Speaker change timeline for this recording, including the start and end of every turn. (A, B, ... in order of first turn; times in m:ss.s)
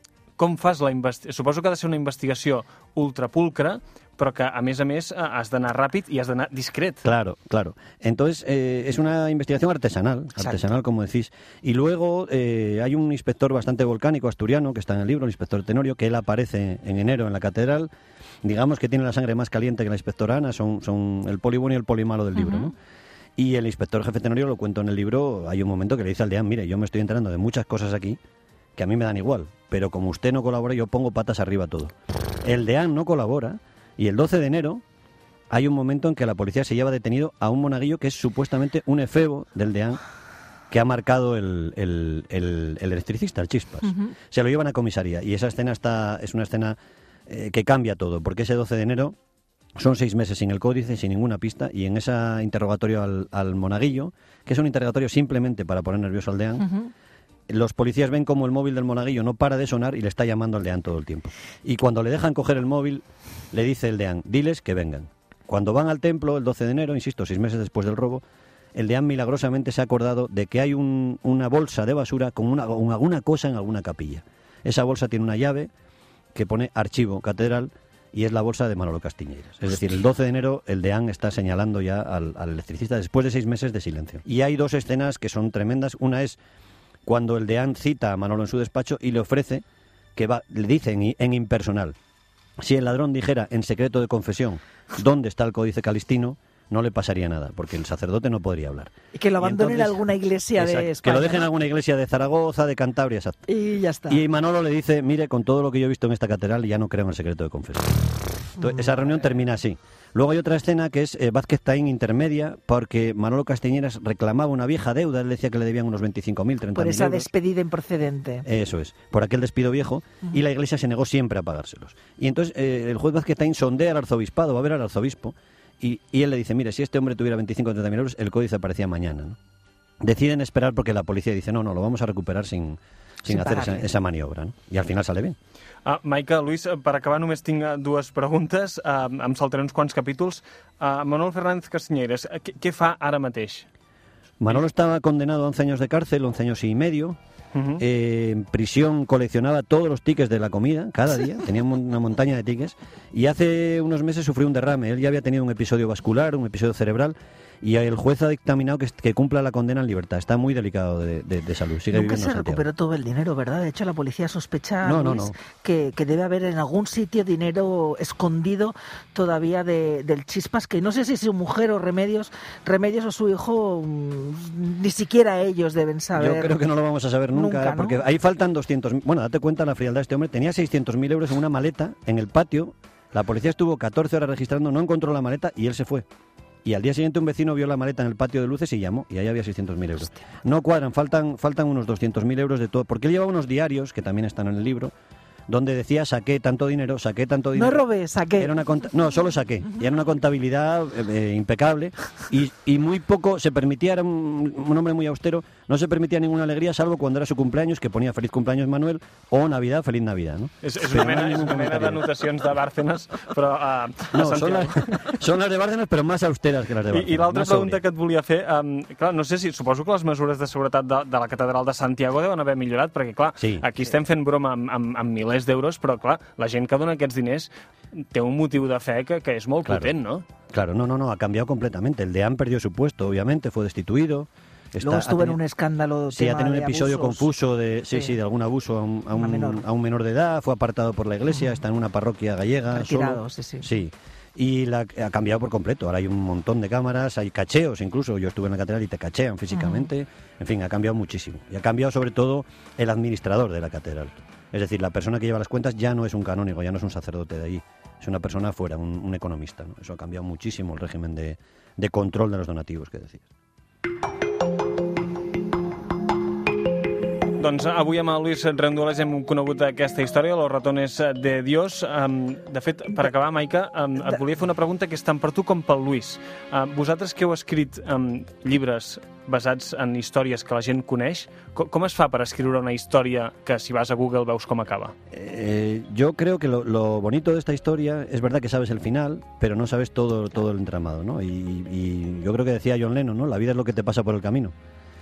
0:00.4-0:07.0 A
0:07.0-0:17.9 B
0:18.4-0:22.7 B
0:22.4-0:22.7 C
0:23.4-0:28.2 B
0:28.8-0:34.8 B
0:35.5-0:40.0 B
0:40.7-0:46.8 B
0:47.3-0:49.2 B
0:49.8-0:56.7 B
0:56.6-0:56.9 C
0:57.5-1:08.2 B
1:08.8-1:15.7 B
1:16.4-1:26.4 B
1:27.1-1:29.6 B
1:30.2-1:32.0 B
1:32.6-1:40.0 B
1:39.1-1:41.4 C
1:40.6-1:43.4 B
1:43.5-1:44.2 C
1:44.1-1:57.3 B
1:48.6-1:49.2 C
1:56.8-1:58.5 C
1:58.5-2:09.4 B
2:10.0-2:15.4 B
2:13.2-2:13.9 C
2:15.8-2:23.7 A
2:24.4-2:27.2 B
2:27.5-2:27.8 A
2:27.8-2:42.6 B
2:41.9-2:56.6 C
2:44.8-2:45.4 B
2:56.2-3:06.1 B
2:57.3-2:58.0 C
3:06.6-3:14.9 B
3:15.5-3:17.8 B
3:17.6-3:18.6 C
3:18.4-3:32.0 B
3:30.6-3:35.0 A
3:34.1-3:37.8 B
3:36.9-3:50.2 A
3:43.4-3:43.6 B
3:49.7-3:49.9 B
3:50.5-3:55.4 B
3:54.8-3:57.3 C
3:56.1-4:23.3 B
3:57.9-3:58.2 C
3:59.1-3:59.6 C
4:02.7-4:03.7 C
4:09.5-4:09.9 C
4:27.4-4:44.9 A
4:45.1-4:54.5 B